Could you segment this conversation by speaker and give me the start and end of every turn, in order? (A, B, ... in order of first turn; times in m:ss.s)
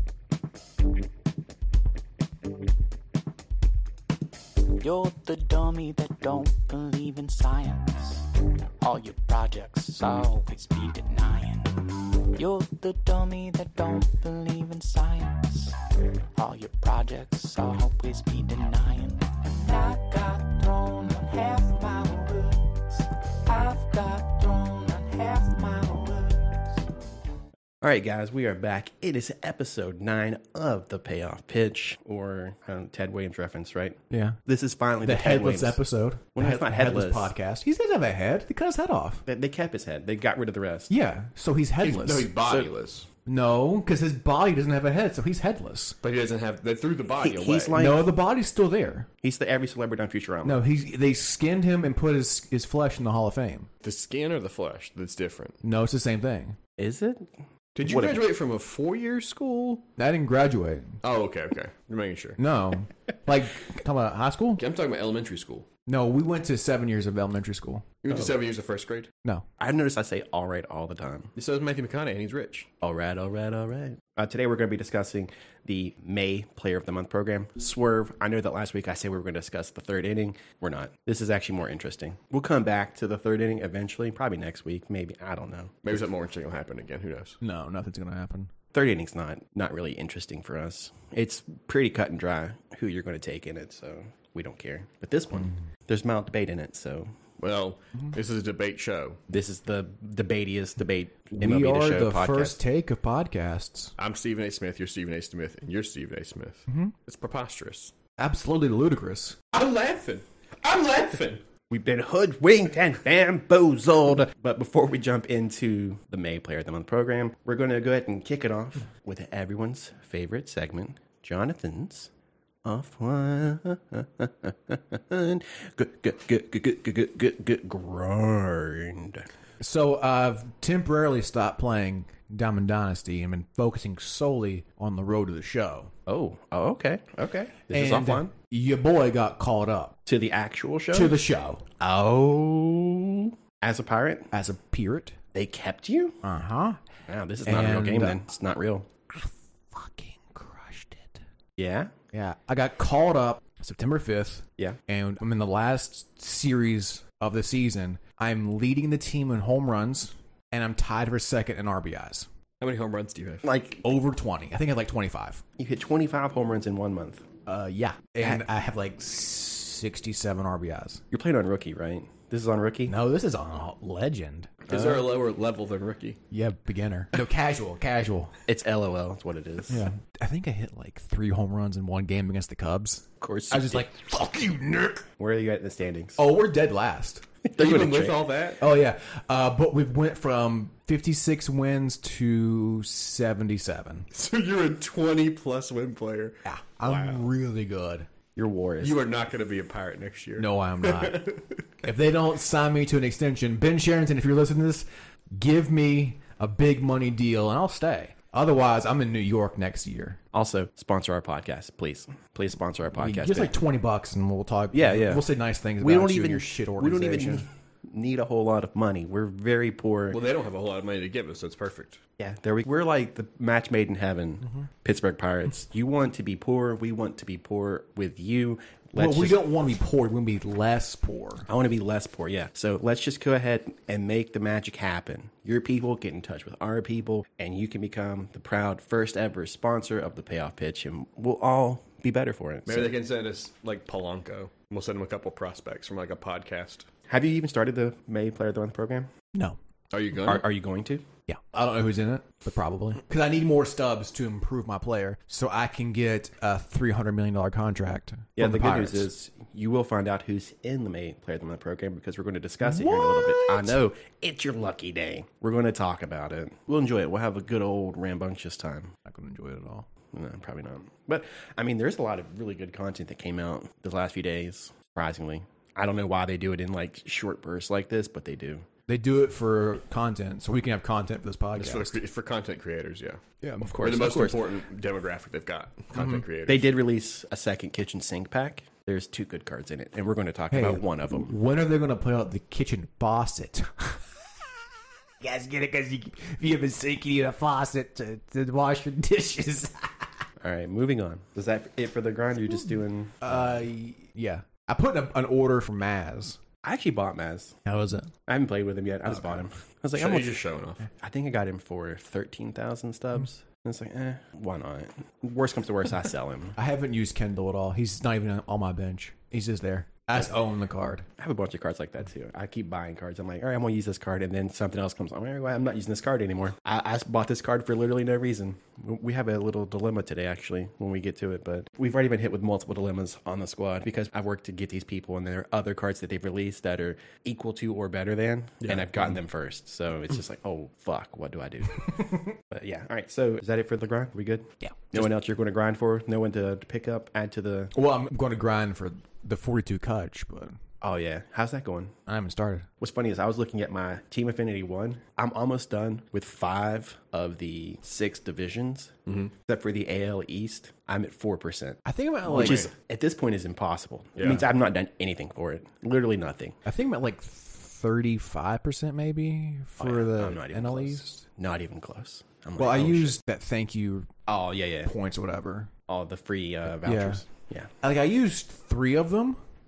0:04.8-0:08.3 A
0:08.8-0:11.8 A
0:12.3-0:15.8 A
0:16.3-0:26.8 A
0:27.8-0:35.8 B
0:34.1-0:34.4 C
0:35.0-0:39.2 C
0:36.3-0:37.3 B
0:39.2-0:40.9 B
0:40.9-0:42.3 C
0:41.8-0:43.1 D
0:43.2-0:46.0 C
0:46.0-0:47.8 D
0:47.2-0:48.0 B
0:47.7-0:49.1 C
0:49.2-0:50.6 B
0:50.4-0:53.7 C
0:53.8-0:55.6 D
0:55.6-0:56.6 C
0:56.8-0:57.3 B
0:57.8-0:59.8 D
0:57.8-0:58.2 B
1:00.0-1:01.0 C
1:01.0-1:02.4 D
1:02.4-1:04.6 C
1:04.6-1:05.7 D
1:05.9-1:07.9 C
1:08.0-1:09.1 D
1:09.6-1:11.3 B
1:11.4-1:12.7 D
1:12.8-1:26.0 B
1:25.8-1:27.4 D
1:27.4-1:28.5 C
1:28.7-1:37.1 B
1:37.4-1:39.2 D
1:39.3-1:42.6 B
1:41.4-1:43.9 C
1:44.0-1:47.9 D
1:48.2-1:49.4 C
1:49.5-1:51.4 D
1:51.7-2:02.1 B
2:02.6-2:09.2 B
2:09.6-2:15.9 C
2:16.1-2:18.3 B
2:17.7-2:20.0 C
2:20.0-2:21.2 B
2:20.9-2:21.6 C
2:21.8-2:24.3 B
2:24.3-2:25.2 C
2:25.3-2:26.2 B
2:26.2-2:26.9 C
2:27.1-2:28.9 B
2:27.4-2:28.2 C
2:29.1-2:31.2 C
2:31.6-2:31.9 B
2:32.1-2:42.3 C
2:42.6-2:43.4 D
2:43.4-2:43.8 B
2:43.8-2:45.4 C
2:45.6-2:47.2 B
2:47.4-2:51.0 C
2:51.1-2:53.0 B
2:52.9-2:55.1 C
2:54.7-2:56.2 D
2:56.3-2:58.4 C
2:58.5-2:59.8 B
2:59.7-3:05.0 C
3:03.2-3:03.9 B
3:05.2-3:06.2 B
3:06.2-3:07.2 C
3:07.4-3:08.3 B
3:07.6-3:08.6 D
3:08.6-3:14.1 C
3:14.1-3:17.3 D
3:16.4-3:18.1 C
3:18.4-3:19.0 B
3:18.8-3:21.8 D
3:20.4-3:30.2 C
3:30.3-3:33.5 B
3:33.0-3:37.4 C
3:34.7-3:35.2 B
3:35.8-3:40.2 B
3:40.1-3:42.0 D
3:42.2-3:49.4 B
3:49.0-3:51.5 C
3:51.5-4:02.9 B
4:02.7-4:06.9 D
4:07.1-4:09.1 B
4:09.9-4:10.4 D
4:10.2-4:11.1 B
4:11.3-4:19.1 C
4:18.4-4:28.9 B
4:22.6-4:23.8 C
4:29.0-4:29.9 C
4:30.1-4:38.6 B
4:38.9-4:42.0 C
4:41.6-4:43.2 D
4:43.4-4:43.8 C
4:43.6-4:44.4 B
4:43.8-4:46.7 D
4:45.9-4:46.2 C
4:46.4-4:51.3 B
4:50.5-4:54.1 C
4:55.2-5:00.2 C
5:00.4-5:03.5 B
5:03.2-5:06.4 C
5:06.6-5:07.6 B
5:07.6-5:08.1 C
5:08.3-5:10.4 B
5:09.9-5:10.8 D
5:10.9-5:16.6 B
5:16.6-5:21.1 C
5:21.2-5:47.7 B
5:38.6-5:39.0 D
5:44.6-5:45.1 C
5:47.7-5:50.6 C
5:50.8-5:52.0 B
5:52.0-5:52.7 C
5:52.8-6:06.6 B
6:01.8-6:02.6 C
6:02.4-6:02.7 D
6:04.2-6:04.5 D
6:06.6-6:11.2 C
6:09.8-6:13.2 B
6:12.6-6:14.1 C
6:14.3-6:14.9 B
6:14.8-6:15.7 C
6:15.9-6:17.7 B
6:16.8-6:17.2 C
6:17.8-6:19.4 C